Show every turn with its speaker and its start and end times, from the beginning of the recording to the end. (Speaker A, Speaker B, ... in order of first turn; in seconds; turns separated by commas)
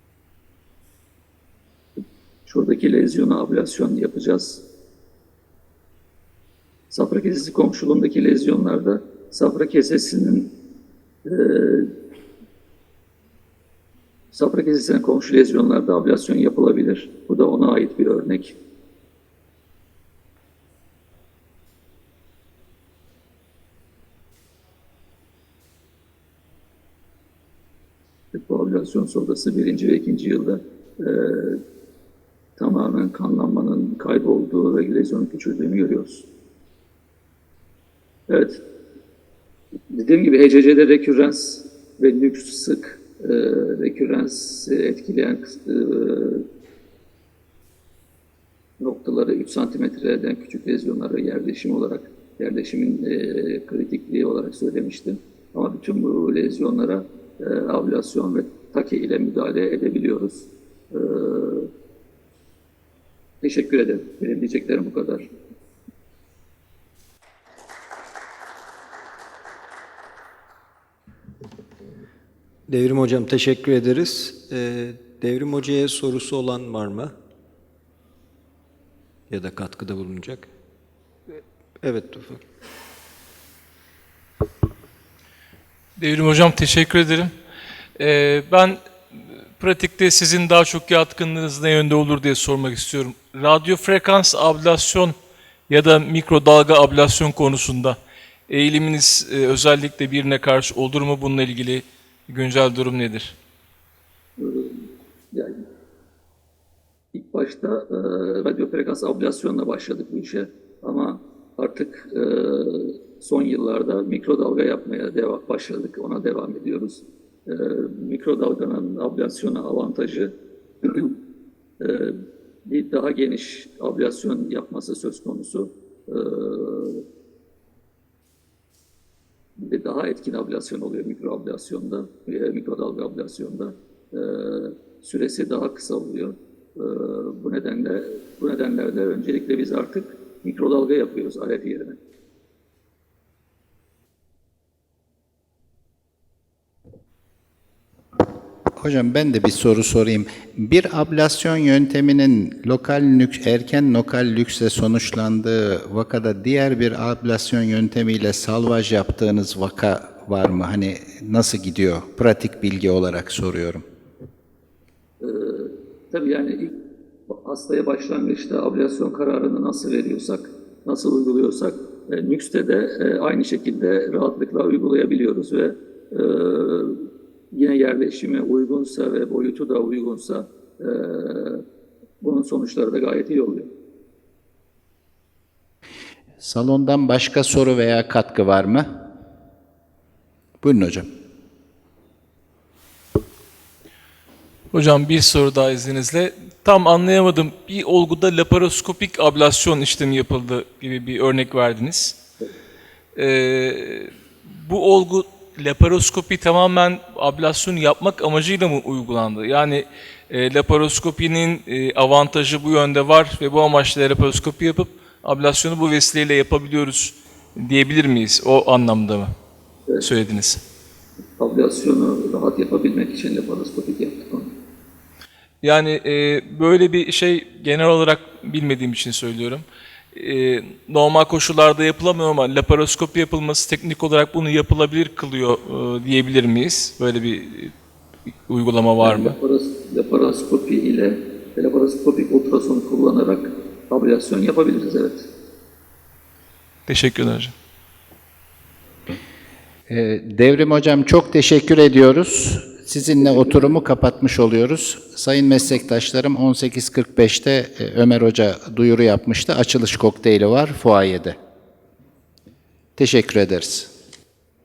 Speaker A: 2.5-4.6, Speaker A: 6.9-10.5, Speaker A: 11.2-11.9, Speaker A: 14.3-18.6, Speaker A: 28.3-31.6, Speaker A: 32.6-36.2, Speaker A: 38.3-38.6, Speaker A: 39.9-46.4, Speaker A: 48.8-61.7, Speaker A: 63.4-65.3, Speaker B: 72.7-77.1, Speaker B: 79.3-80.5, Speaker B: 81.8-82.4, Speaker C: 86.0-87.3, Speaker C: 88.0-88.8, Speaker C: 89.6-95.1, Speaker C: 95.7-98.0, Speaker C: 98.5-103.4, Speaker A: 104.4-105.6, Speaker A: 107.1-121.2, Speaker A: 121.8-127.0, Speaker A: 129.6-142.0, Speaker D: 148.8-163.8, Speaker A: 165.2-166.8, Speaker A: 167.3-177.0, Speaker A: 177.5-181.6, Speaker A: 182.2-183.7, Speaker D: 186.4-188.9, Speaker D: 190.6-191.1, Speaker C: 194.7-202.2, Speaker C: 203.1-219.3, Speaker C: 220.0-220.6, Speaker A: 221.4-224.5, Speaker C: 225.6-237.7, Speaker C: 238.5-239.3, Speaker A: 239.0-245.3, Speaker C: 246.9-247.5, Speaker D: 249.9-261.4, Speaker A: 253.2-253.7, Speaker D: 263.0-263.9